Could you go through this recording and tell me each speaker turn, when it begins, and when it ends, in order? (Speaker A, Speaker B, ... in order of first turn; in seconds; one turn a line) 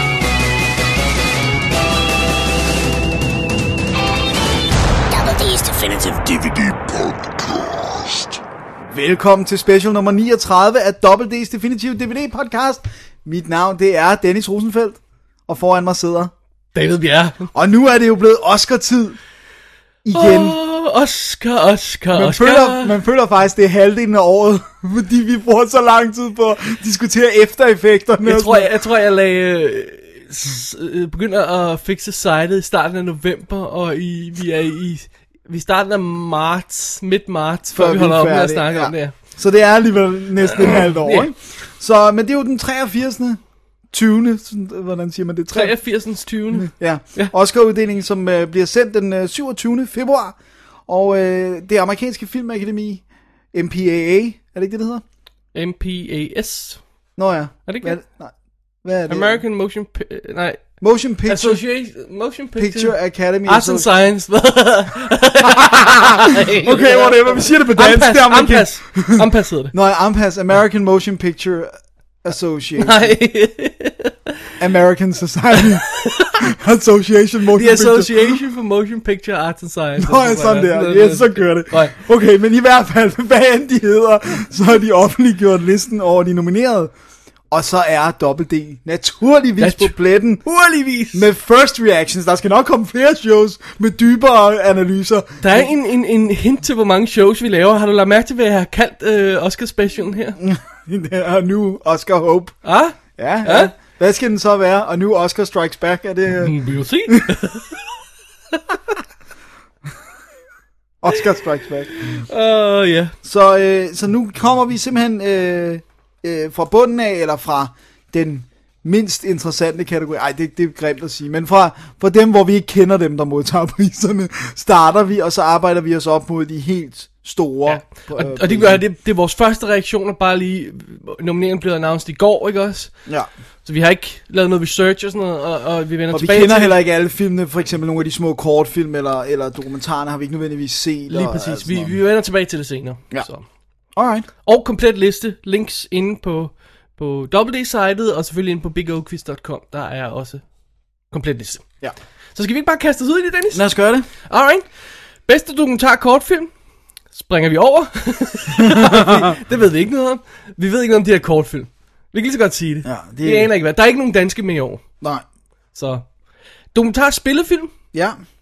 Speaker A: 5.1-8.4
Speaker B: 8.9-16.3
Speaker C: 16.7-17.5
Speaker B: 17.5-19.2
Speaker B: 20.0-20.6
Speaker C: 20.1-22.9
Speaker B: 22.1-28.7
Speaker C: 28.2-39.1
Speaker B: 37.7-43.4
Speaker C: 40.6-41.3
Speaker B: 43.9-45.8
Speaker C: 45.5-47.3
Speaker B: 46.5-55.0
Speaker C: 55.5-56.8
Speaker B: 57.2-59.4
Speaker C: 57.7-58.0
Speaker C: 59.1-60.7
Speaker B: 60.8-61.6
Speaker C: 61.2-69.7
Speaker B: 62.5-63.9
Speaker B: 65.5-73.2
Speaker C: 72.8-74.3
Speaker B: 74.6-78.4
Speaker C: 76.0-76.3
Speaker C: 77.5-82.0
Speaker B: 80.0-86.9
Speaker B: 87.5-90.4
Speaker C: 89.6-91.2
Speaker B: 91.1-95.7
Speaker C: 95.4-100.4
Speaker B: 100.4-102.6
Speaker C: 102.6-103.7
Speaker B: 103.2-107.3
Speaker C: 106.4-107.8
Speaker B: 111.0-112.2
Speaker C: 112.0-113.1
Speaker B: 113.2-128.8
Speaker C: 127.7-133.0
Speaker C: 133.6-136.8
Speaker B: 136.1-142.0
Speaker C: 141.1-143.5
Speaker B: 143.9-144.3
Speaker C: 144.4-150.4
Speaker C: 151.1-151.7
Speaker C: 152.3-153.6
Speaker B: 153.5-154.1
Speaker C: 154.2-154.6
Speaker C: 155.2-156.5
Speaker C: 157.1-164.8
Speaker B: 158.6-159.3
Speaker B: 162.8-163.5
Speaker C: 165.7-166.1
Speaker C: 166.7-167.7
Speaker B: 167.9-168.2